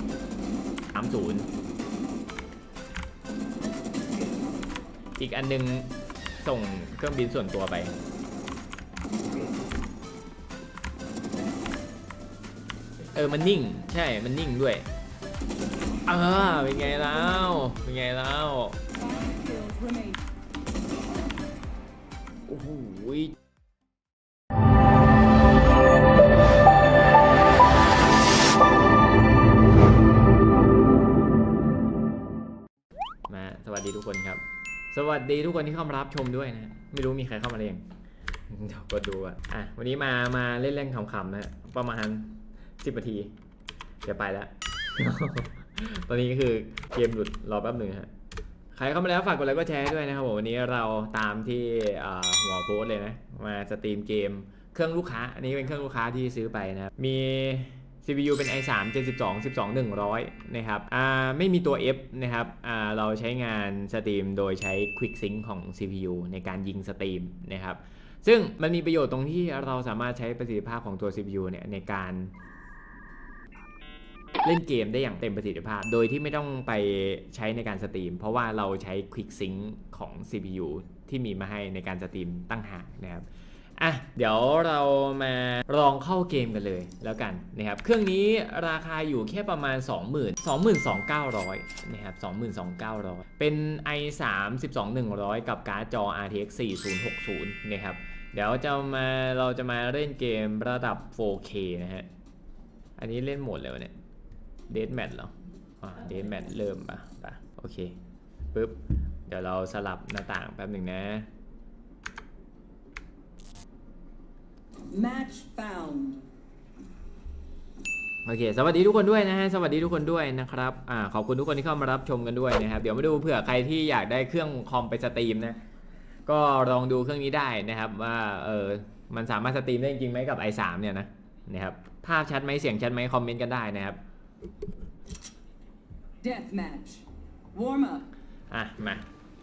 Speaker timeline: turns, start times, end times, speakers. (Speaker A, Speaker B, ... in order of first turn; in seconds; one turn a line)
Speaker A: 0.9-1.5
Speaker A: 5.2-7.9
Speaker A: 13.1-14.9
Speaker A: 16.1-18.8
Speaker B: 18.9-20.2
Speaker A: 22.4-23.3
Speaker A: 33.3-37.9
Speaker A: 38.5-43.3
Speaker A: 44.0-48.1
Speaker A: 48.7-72.3
Speaker A: 74.4-102.1
Speaker A: 103.0-103.9
Speaker A: 104.7-108.0
Speaker A: 108.5-111.3
Speaker B: 114.9-116.2
Speaker A: 118.2-125.6
Speaker A: 126.3-134.0
Speaker B: 136.2-138.1
Speaker A: 138.5-139.1